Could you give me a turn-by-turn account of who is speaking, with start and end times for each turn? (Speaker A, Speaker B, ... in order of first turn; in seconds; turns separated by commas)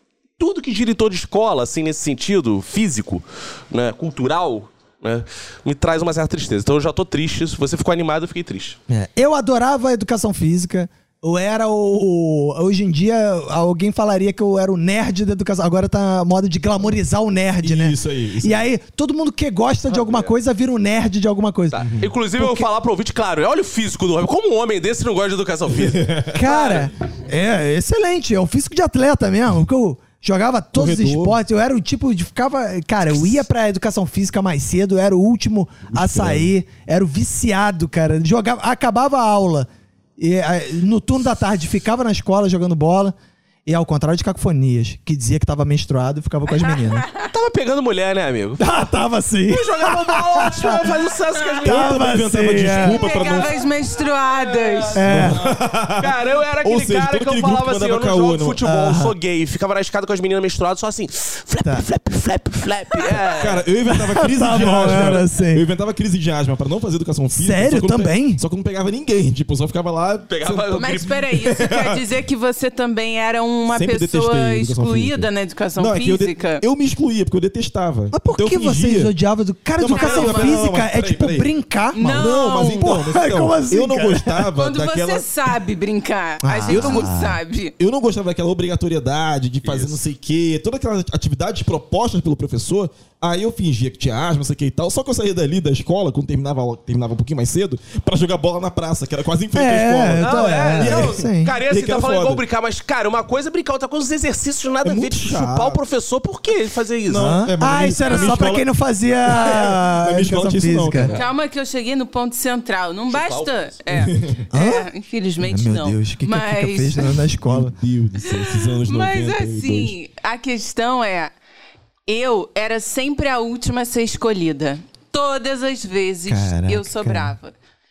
Speaker A: 0.4-8.8, Speaker B: 8.9-22.7, Speaker C: 17.6-18.6, Speaker A: 19.9-20.3, Speaker A: 21.7-26.9, Speaker C: 25.7-26.4, Speaker B: 26.3-43.1, Speaker C: 30.7-31.4, Speaker C: 35.9-36.5, Speaker B: 43.6-47.0, Speaker D: 46.7-47.1, Speaker A: 47.2-48.9, Speaker B: 48.6-50.8, Speaker A: 49.5-52.0, Speaker B: 51.6-53.0, Speaker C: 51.6-53.5, Speaker D: 52.7-55.1, Speaker A: 54.3-63.7, Speaker B: 54.9-55.4, Speaker C: 55.0-58.6, Speaker B: 58.6-59.1, Speaker C: 63.3-72.0, Speaker B: 64.1-65.6, Speaker B: 67.3-68.4, Speaker A: 70.3-71.2, Speaker D: 70.7-76.6, Speaker C: 73.7-79.1, Speaker B: 78.1-84.5, Speaker C: 79.8-81.5, Speaker D: 79.9-80.7, Speaker D: 81.9-83.1, Speaker C: 82.1-85.3, Speaker D: 84.5-87.7, Speaker B: 86.4-87.4, Speaker C: 86.7-87.1, Speaker C: 87.8-102.4, Speaker A: 89.6-90.0, Speaker B: 99.5-101.5, Speaker A: 100.1-107.4, Speaker C: 104.8-105.8, Speaker C: 107.1-108.6, Speaker B: 107.1-111.1, Speaker D: 108.0-108.5, Speaker C: 109.3-111.2, Speaker D: 111.1-117.2, Speaker A: 113.1-113.6, Speaker C: 113.9-114.3, Speaker B: 114.5-114.9, Speaker B: 115.4-117.7, Speaker C: 117.5-119.9, Speaker D: 118.2-121.3, Speaker D: 122.1-127.5, Speaker B: 126.3-127.3